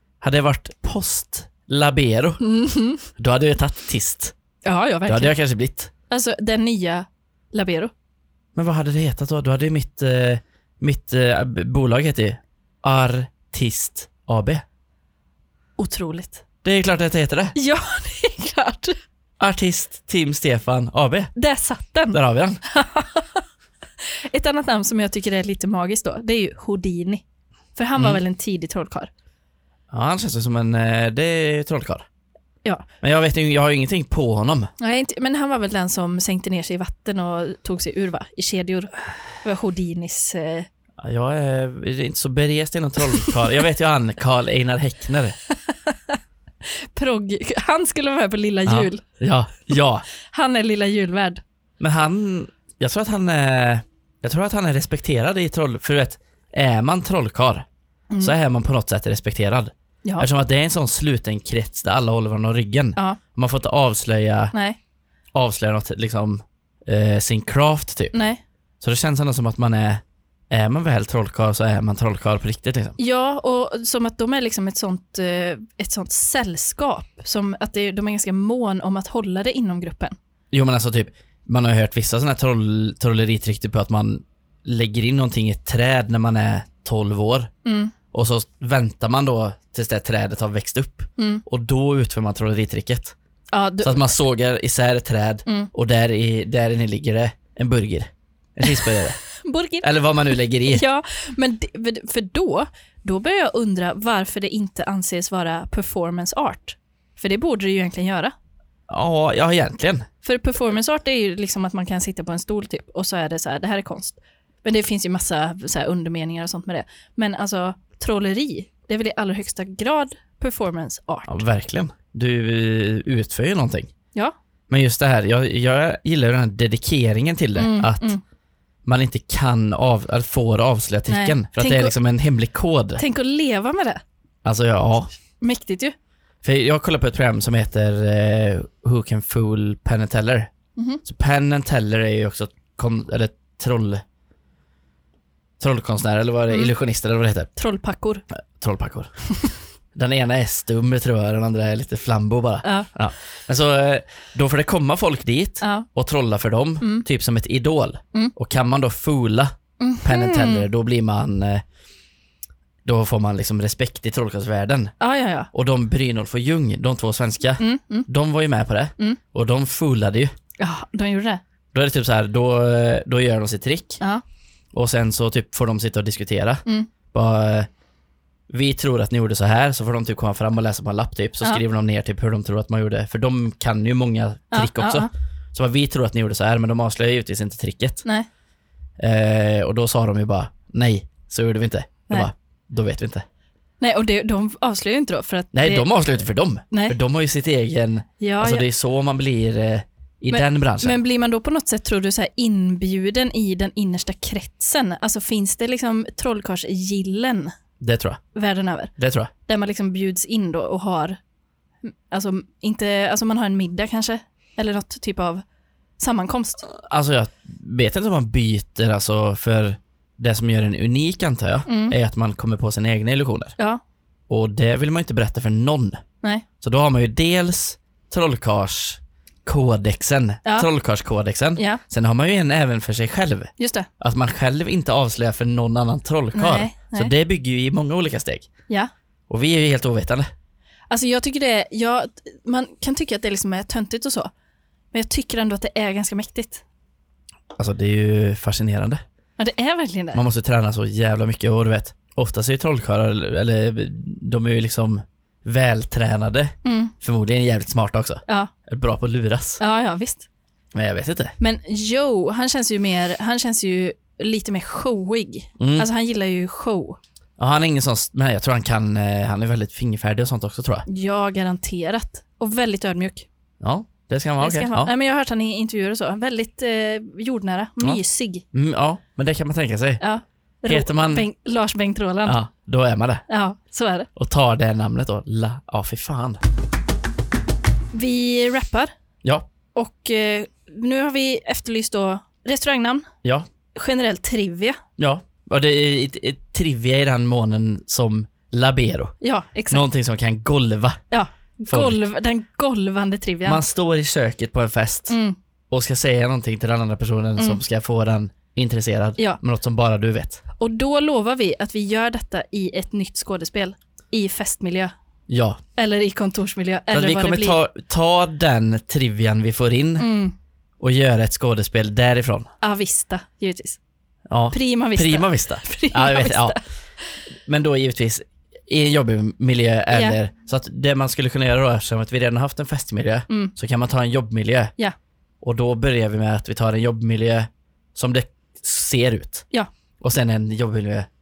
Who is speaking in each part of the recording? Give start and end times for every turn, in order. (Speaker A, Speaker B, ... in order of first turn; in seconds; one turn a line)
Speaker A: 0.2-2.4
Speaker B: 2.4-3.1
Speaker A: 3.2-4.3
Speaker B: 4.7-5.3
Speaker A: 5.1-5.9
Speaker B: 6.1-7.9
Speaker A: 8.6-14.6
Speaker B: 15.8-16.4
Speaker A: 16.6-17.6
Speaker B: 17.6-19.0
Speaker A: 19.4-21.3
Speaker B: 21.4-23.4
Speaker A: 22.1-22.6
Speaker B: 24.0-27.2
Speaker B: 27.8-29.1
Speaker A: 29.9-32.1
Speaker A: 33.0-34.7
Speaker B: 34.8-40.7
Speaker A: 41.0-45.4
Speaker B: 45.5-49.0
Speaker A: 48.7-50.0
Speaker B: 50.2-51.4
Speaker A: 51.8-57.7
Speaker A: 58.2-64.5
Speaker B: 64.5-64.8
Speaker A: 65.3-68.2
Speaker B: 68.1-68.4
Speaker A: 68.8-73.0
Speaker B: 73.0-80.2
Speaker A: 80.5-87.5
Speaker B: 87.7-88.0
Speaker A: 88.1-93.2
Speaker B: 91.2-91.4
Speaker B: 93.5-94.1
Speaker A: 93.8-99.2
Speaker B: 98.7-99.9
Speaker A: 99.8-100.8
Speaker B: 100.7-108.3
Speaker A: 108.9-110.1
Speaker B: 110.2-121.4
Speaker A: 121.3-123.9
Speaker A: 124.7-128.2
Speaker B: 127.6-128.2
Speaker A: 128.8-133.0
Speaker B: 131.1-131.9
Speaker B: 133.0-134.0
Speaker A: 134.4-135.1
Speaker B: 135.4-135.9
Speaker A: 136.4-140.5
Speaker B: 140.8-141.0
Speaker A: 141.0-144.0
Speaker A: 145.6-147.5
Speaker B: 147.6-148.2
Speaker A: 148.6-149.1
Speaker A: 149.9-161.6
Speaker B: 152.6-152.9
Speaker B: 155.6-155.9
Speaker B: 159.8-160.7
Speaker A: 162.8-164.9
Speaker B: 165.0-165.5
Speaker A: 165.5-170.3
Speaker B: 167.6-168.1
Speaker B: 170.6-171.4
Speaker A: 171.7-174.0
Speaker A: 174.7-177.7
Speaker A: 178.5-188.0
Speaker B: 184.5-185.1
Speaker A: 189.0-193.2
Speaker B: 193.8-195.9
Speaker A: 195.5-201.0
Speaker B: 198.2-198.7
Speaker B: 200.3-207.5
Speaker A: 207.8-208.2
Speaker B: 208.3-208.9
Speaker A: 209.0-209.3
Speaker B: 209.5-211.2
Speaker B: 211.8-215.4
Speaker B: 216.0-216.6
Speaker A: 216.7-223.6
Speaker B: 221.7-221.9
Speaker A: 224.3-226.0
Speaker A: 226.6-238.5
Speaker B: 233.6-233.9
Speaker B: 236.3-237.1
Speaker A: 239.3-240.3
Speaker B: 240.9-244.3
Speaker B: 244.9-246.6
Speaker A: 247.5-249.0
Speaker B: 249.4-250.2
Speaker A: 250.1-259.6
Speaker B: 256.6-256.9
Speaker B: 259.6-260.3
Speaker A: 260.7-261.4
Speaker B: 261.4-267.0
Speaker A: 265.6-265.9
Speaker A: 267.4-270.9
Speaker B: 270.9-273.3
Speaker A: 273.6-274.9
Speaker B: 274.4-278.4
Speaker A: 278.5-280.0
Speaker B: 280.0-282.4
Speaker A: 280.7-281.3
Speaker A: 282.2-283.2
Speaker B: 283.3-284.1
Speaker A: 284.2-286.4
Speaker B: 287.9-288.9
Speaker B: 289.8-293.1
Speaker B: 293.8-294.8
Speaker A: 295.0-299.1
Speaker B: 299.2-299.9
Speaker A: 299.7-301.0
Speaker B: 301.1-303.6
Speaker A: 301.7-302.0
Speaker A: 303.4-305.2
Speaker B: 305.1-305.4
Speaker A: 305.7-310.4
Speaker B: 310.6-314.9
Speaker A: 315.3-315.6
Speaker B: 315.8-317.6
Speaker A: 316.9-320.1
Speaker B: 320.0-320.4
Speaker A: 320.8-322.5
Speaker B: 322.6-323.8
Speaker A: 324.3-326.6
Speaker B: 324.5-326.6
Speaker A: 327.5-334.8
Speaker B: 329.9-330.2
Speaker A: 335.4-339.5
Speaker A: 340.0-341.1